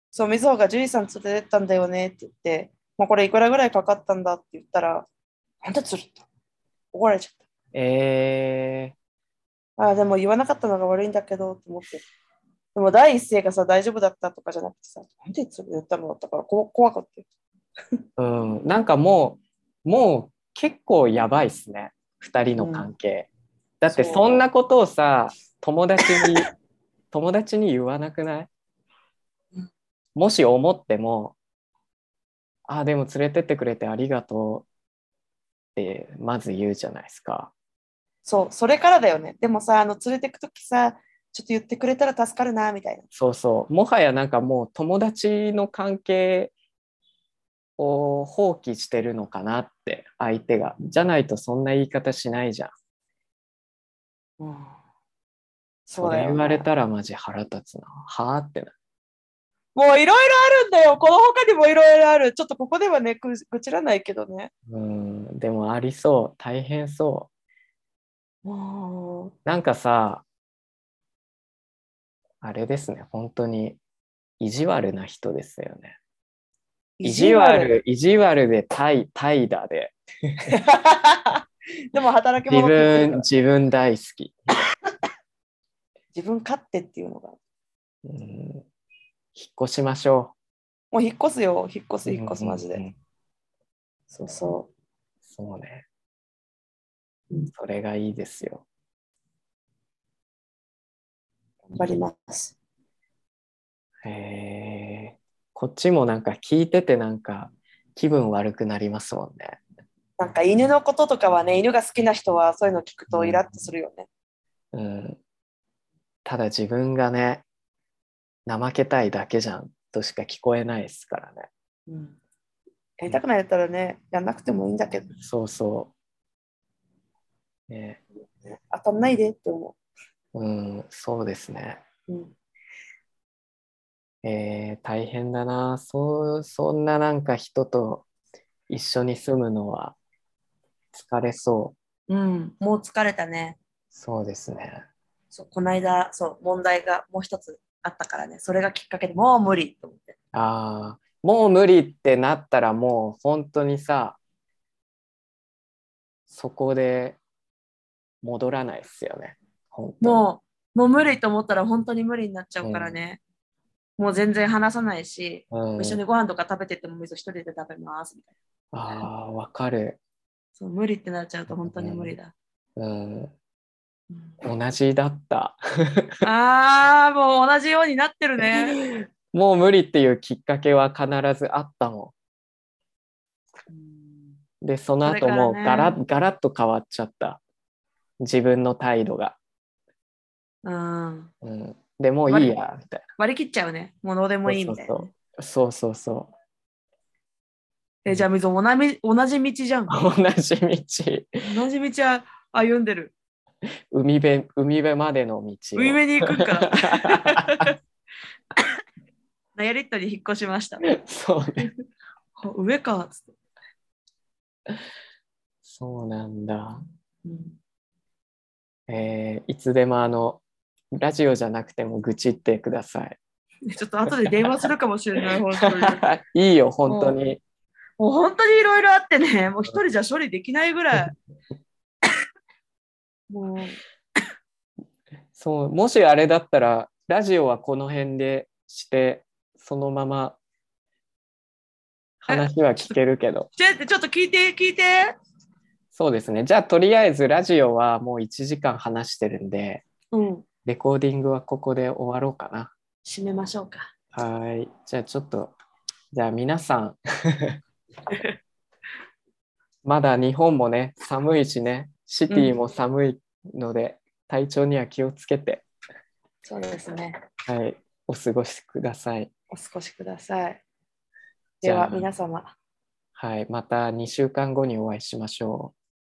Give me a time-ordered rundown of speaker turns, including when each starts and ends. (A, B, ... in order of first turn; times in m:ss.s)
0:00.1-0:05.1 A
0:05.6-0:06.2 A
0:06.9-0:07.4 A
0:07.7-0:09.0 B
0:09.8-0:12.0 A
0:12.8-0:17.2 A
0:18.2-0:23.3 B
0:22.6-0:22.9 A
0:23.8-0:26.5 B
0:23.9-0:24.4 A
0:27.1-0:28.5 B
0:30.2-0:31.4 B
0:32.7-0:34.7 B
0:35.8-0:37.5 B
0:38.2-0:43.0 A
0:43.2-0:46.5 B
0:47.8-0:52.7 B
0:54.4-0:54.8 A
0:55.9-0:56.6 A
0:56.0-0:58.7 B
0:59.8-1:04.5 A
1:04.7-1:07.3 B
1:08.4-1:09.3 A
1:09.5-1:10.2 B
1:12.4-1:13.8 B
1:14.4-1:16.0 B
1:17.0-1:17.7 A
1:17.0-1:20.5 B
1:20.5-1:23.2 A
1:22.5-1:24.4 B
1:26.1-1:27.4 A
1:28.0-1:28.7 B
1:29.4-1:30.3 B
1:30.9-1:32.8 A
1:32.1-1:33.0 B
1:34.1-1:34.7 A
1:35.3-1:35.8 B
1:37.5-1:38.6 B
1:41.7-1:42.6 A
1:44.0-1:49.6 B
1:50.2-1:54.1 A
1:53.1-1:53.4 B
1:54.7-1:55.2 B
1:56.3-1:57.4 B
1:58.5-2:01.5 B
2:01.9-2:02.2 A
2:03.0-2:05.1 A
2:05.2-2:05.9 B
2:07.7-2:08.0 B
2:08.5-2:09.8 A
2:10.3-2:11.8 B
2:12.1-2:12.4 A
2:14.2-2:18.1 B
2:18.7-2:20.0 B
2:20.9-2:21.8 B
2:22.1-2:23.6 A
2:23.9-2:24.8 B
2:25.3-2:30.2 A
2:30.3-2:34.2 B
2:36.3-2:37.2 B
2:38.2-2:40.2 B
2:40.0-2:43.2 A
2:42.6-2:43.0 B
2:44.0-2:48.3 A
2:45.5-2:46.0 B
2:48.7-2:50.0 B
2:50.6-2:52.3 A
2:51.6-2:52.2 B
2:52.8-2:53.3 B
2:54.4-2:56.1 B
2:56.2-2:58.8 A
2:58.4-3:02.1 B
3:03.7-3:04.3 A
3:04.6-3:07.4 B
3:05.0-3:06.0 A
3:08.2-3:09.4 B
3:10.6-3:11.3 A
3:11.4-3:13.0 B
3:12.3-3:12.5 A
3:13.2-3:15.1 A
3:14.5-3:16.3 B
3:18.0-3:20.0 A
3:19.9-3:21.4 B
3:21.4-3:23.1 A
3:23.9-3:27.7 B
3:25.8-3:27.8 A
3:29.6-3:30.9 A
3:30.9-3:31.7 B
3:32.4-3:33.3 A
3:35.6-3:36.8 B
3:37.2-3:37.6 A
3:38.9-3:40.4 B
3:41.0-3:43.2 B
3:43.7-3:46.0 A
3:44.1-3:44.7 B
3:45.6-3:47.4 B
3:46.9-3:47.2 A
3:48.0-3:51.1 A
3:53.3-3:53.8 A
3:55.4-4:00.4 B
4:02.2-4:03.5 B
4:02.3-4:02.9 A
4:03.6-4:05.1 A
4:05.9-4:09.8 B
4:10.1-4:10.4 A
4:10.6-4:12.7 B
4:13.0-4:13.9 A
4:14.1-4:15.5 B
4:16.1-4:17.6 B
4:18.1-4:18.4 A
4:19.8-4:25.6 B
4:22.3-4:22.6 A
4:26.5-4:27.2 A
4:27.5-4:29.3 B
4:29.5-4:30.6 A
4:31.6-4:32.5 A
4:31.6-4:32.1 B
4:33.2-4:35.7 B